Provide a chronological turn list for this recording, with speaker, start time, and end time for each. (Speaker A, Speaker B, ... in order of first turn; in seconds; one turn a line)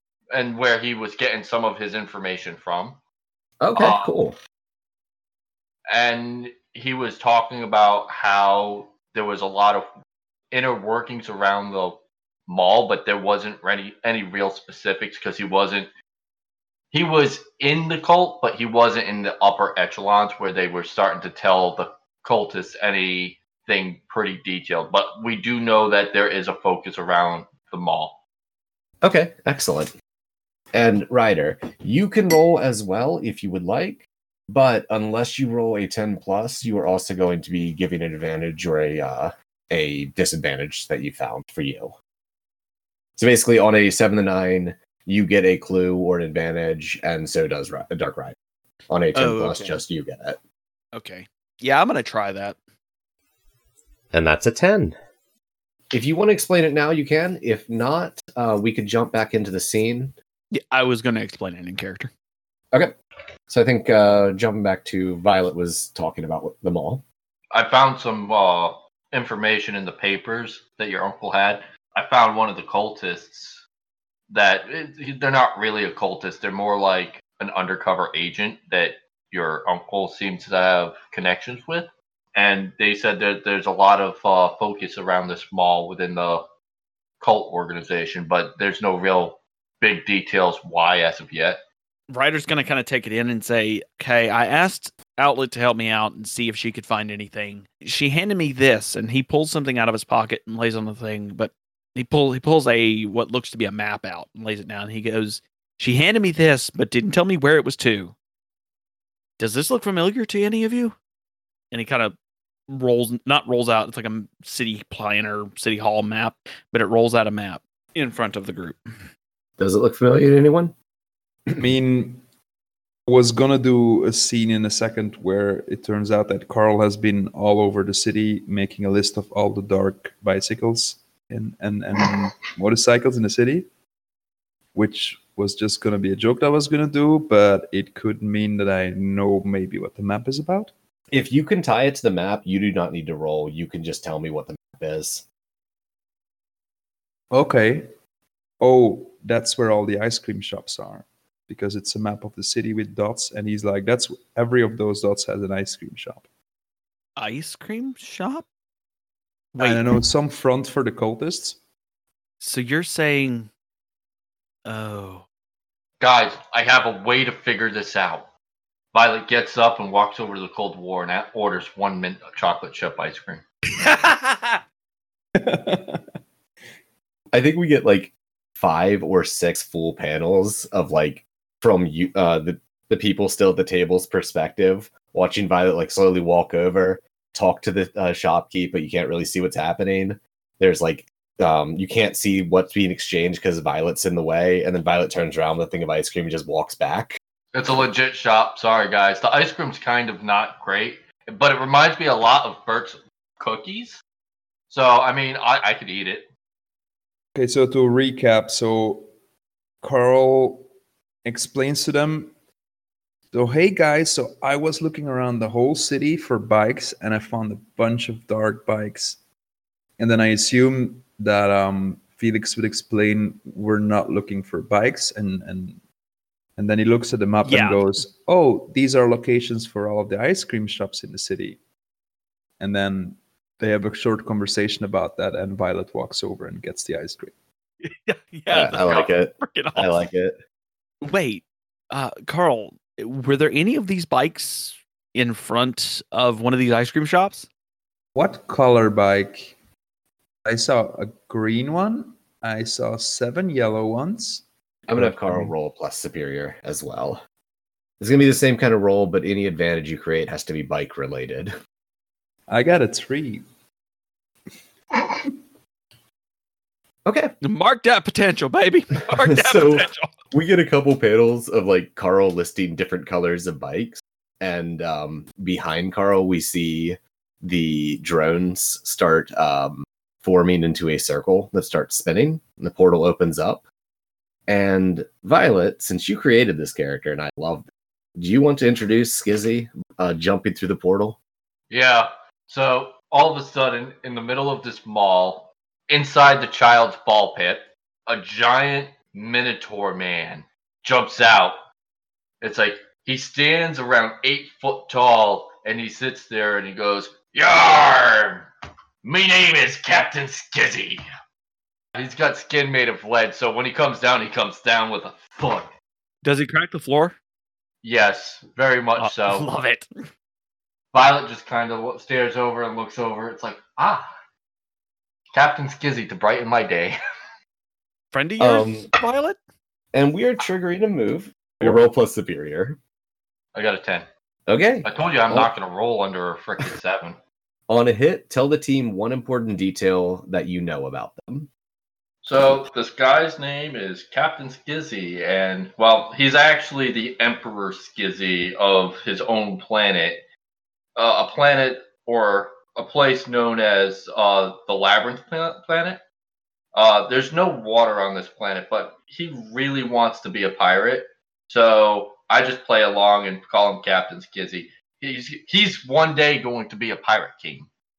Speaker A: 0.3-3.0
Speaker B: 3.6-4.4
Speaker A: 3.8-4.1
Speaker A: 5.9-9.9
Speaker A: 10.5-15.9
Speaker A: 16.9-28.2
Speaker B: 29.0-29.9
Speaker B: 30.7-41.9
Speaker B: 43.2-48.4
Speaker B: 48.9-50.4
Speaker C: 49.1-49.8
Speaker C: 50.9-52.6
Speaker B: 54.1-55.0
Speaker B: 55.9-60.1
Speaker C: 60.5-62.1
Speaker B: 63.5-67.0
Speaker A: 67.5-73.6
Speaker A: 74.3-86.5
Speaker A: 87.2-91.6
Speaker C: 92.1-108.2
Speaker C: 109.4-111.0
Speaker C: 111.7-112.2
Speaker C: 112.7-118.8
Speaker B: 119.6-120.7
Speaker D: 121.6-122.2
Speaker D: 123.1-133.7
Speaker D: 134.7-140.7
Speaker B: 141.1-145.2
Speaker D: 147.3-147.9
Speaker D: 148.6-156.2
Speaker C: 157.2-158.5
Speaker C: 159.5-159.8
Speaker D: 159.6-161.6
Speaker C: 162.4-163.5
Speaker C: 164.7-165.2
Speaker A: 166.0-168.3
Speaker A: 168.9-173.4
Speaker C: 173.8-174.6
Speaker D: 175.4-176.0
Speaker B: 177.3-197.2
Speaker A: 197.5-204.0
Speaker A: 204.7-206.3
Speaker D: 207.3-209.1
Speaker D: 209.8-210.7
Speaker D: 211.2-212.3
Speaker D: 213.3-219.2
Speaker D: 220.0-225.8
Speaker D: 226.6-231.6
Speaker C: 227.4-227.9
Speaker D: 232.6-237.3
Speaker C: 237.8-240.1
Speaker B: 238.5-240.4
Speaker C: 241.0-247.5
Speaker D: 248.2-249.6
Speaker D: 250.5-254.4
Speaker B: 254.9-257.2
Speaker D: 255.0-255.5
Speaker B: 258.0-261.5
Speaker D: 262.5-263.4
Speaker B: 267.1-267.3
Speaker C: 267.4-270.1
Speaker B: 269.1-283.6
Speaker B: 284.5-287.7
Speaker B: 288.2-291.2
Speaker A: 291.7-301.6
Speaker A: 302.4-308.5
Speaker A: 309.0-311.0
Speaker A: 311.9-315.7
Speaker C: 316.2-317.2
Speaker A: 317.8-319.5
Speaker C: 319.0-319.9
Speaker A: 320.9-324.1
Speaker A: 325.3-327.0
Speaker C: 328.1-329.4
Speaker B: 328.4-328.9
Speaker B: 329.9-332.8
Speaker A: 333.6-334.1
Speaker B: 334.5-335.5
Speaker A: 334.8-337.2
Speaker B: 337.7-341.5
Speaker A: 342.2-350.2
Speaker A: 351.0-356.0
Speaker A: 356.7-367.7